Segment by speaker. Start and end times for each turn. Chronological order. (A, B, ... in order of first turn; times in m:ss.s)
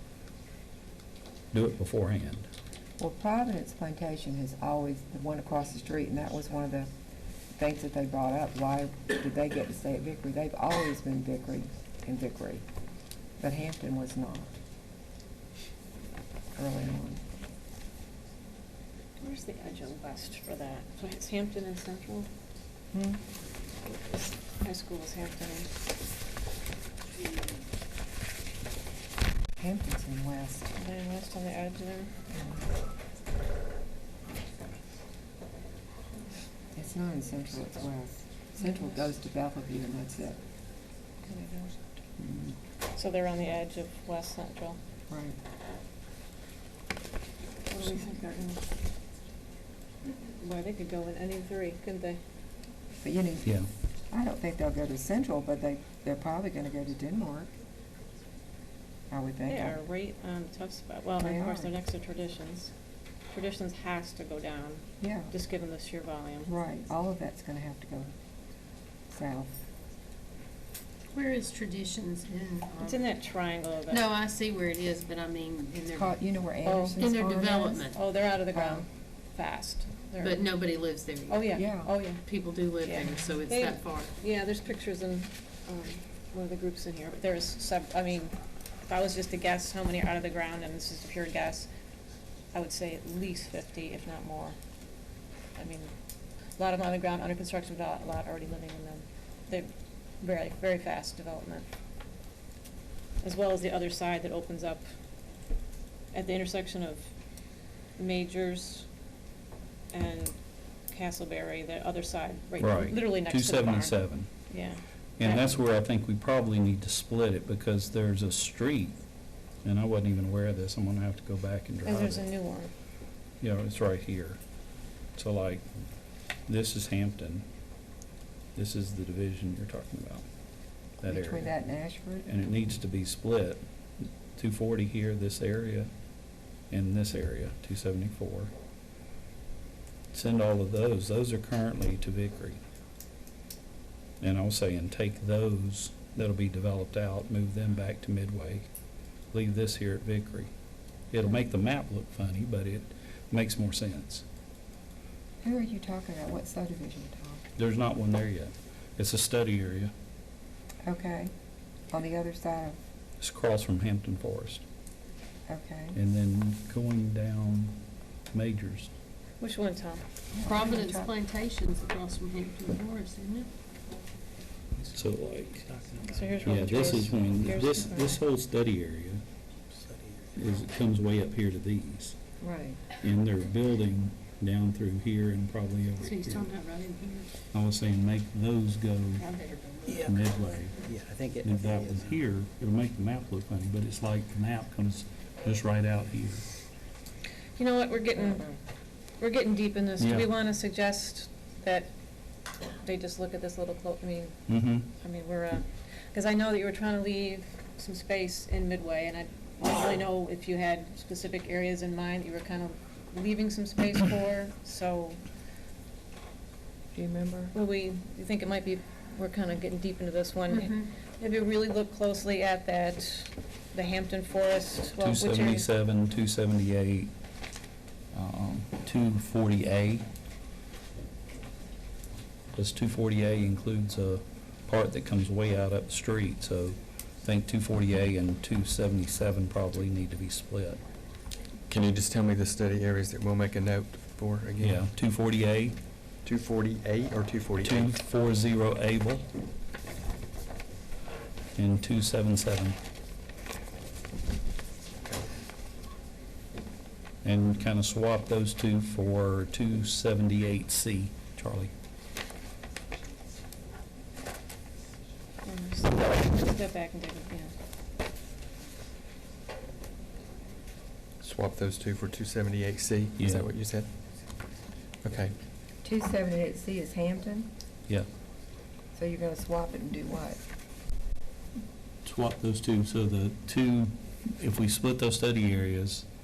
0:01.5-0:02.5 A
0:03.0-0:06.9 B
0:07.6-0:12.6 B
0:13.4-0:14.5 B
0:16.6-0:17.2 B
0:19.2-0:22.3 C
0:22.9-0:23.2 B
0:24.0-0:25.7 C
0:29.6-0:30.7 B
0:30.7-0:32.1 C
0:32.3-0:32.7 B
0:36.7-0:40.4 B
0:41.3-0:41.7 B
0:42.2-0:42.5 A
0:43.0-0:44.8 C
0:45.1-0:45.4 B
0:47.7-0:48.6 C
0:50.4-0:52.2 C
0:53.0-0:57.5 B
0:59.1-0:59.8 B
0:59.5-1:02.7 C
1:01.2-1:01.7 B
1:03.3-1:06.5 C
1:05.0-1:05.3 B
1:06.5-1:08.1 B
1:09.1-1:09.6 B
1:11.1-1:13.0 D
1:12.8-1:14.1 C
1:13.9-1:16.1 D
1:15.9-1:17.9 B
1:16.6-1:17.0 C
1:17.0-1:18.0 D
1:17.9-1:20.5 C
1:18.5-1:18.9 B
1:20.2-1:21.4 D
1:21.3-1:22.3 C
1:21.5-1:21.9 B
1:22.2-1:24.1 D
1:22.8-1:28.3 C
1:28.9-1:31.7 C
1:32.5-1:34.6 C
1:35.6-1:35.9 C
1:36.6-1:41.7 C
1:43.2-1:44.8 C
1:46.1-1:47.1 C
1:48.0-1:48.9 C
1:49.9-1:50.4 C
1:50.9-1:55.6 C
1:52.6-1:54.3 A
1:55.2-1:59.0 A
1:59.6-2:02.3 A
2:01.8-2:02.7 C
2:03.4-2:04.4 A
2:05.2-2:05.6 A
2:06.5-2:07.5 A
2:08.6-2:10.2 A
2:11.0-2:11.5 A
2:11.0-2:12.2 B
2:12.2-2:13.6 A
2:14.4-2:15.9 A
2:16.7-2:18.5 A
2:20.1-2:22.6 A
2:24.2-2:28.7 A
2:29.3-2:30.5 A
2:31.1-2:34.2 A
2:35.4-2:37.4 B
2:37.6-2:39.9 A
2:40.8-2:41.3 B
2:41.9-2:42.8 B
2:43.2-2:44.6 A
2:45.5-2:46.0 B
2:45.9-2:47.8 A
2:48.3-2:48.9 A
2:49.4-2:50.0 C
2:50.3-2:51.1 B
2:50.5-2:53.5 D
2:54.9-2:55.7 A
2:55.7-2:56.4 E
2:56.1-2:58.2 C
2:56.4-2:59.2 A
2:59.9-3:00.3 E
3:00.3-3:02.2 A
3:02.4-3:02.8 B
3:03.0-3:06.5 A
3:06.1-3:07.3 D
3:07.5-3:09.2 A
3:09.2-3:10.1 D
3:09.9-3:10.1 E
3:10.0-3:10.8 A
3:10.8-3:12.1 E
3:11.4-3:16.4 A
3:17.6-3:18.5 C
3:19.2-3:21.9 C
3:20.0-3:20.3 A
3:22.8-3:24.4 C
3:24.5-3:24.9 A
3:25.0-3:35.2 C
3:36.9-3:37.5 B
3:37.5-3:45.7 C
3:40.6-3:40.8 D
3:45.0-3:47.1 A
3:48.1-3:50.1 A
3:52.5-4:00.8 A
4:01.7-4:04.8 F
4:04.6-4:05.8 A
4:06.2-4:07.9 F
4:07.6-4:09.3 A
4:11.6-4:12.8 A
4:17.2-4:21.7 A
4:25.4-4:27.5 C
4:31.2-4:33.9 F
4:33.2-4:33.4 A
4:35.0-4:35.4 F
4:35.8-4:37.5 B
4:38.9-4:40.4 B
4:42.0-4:46.1 A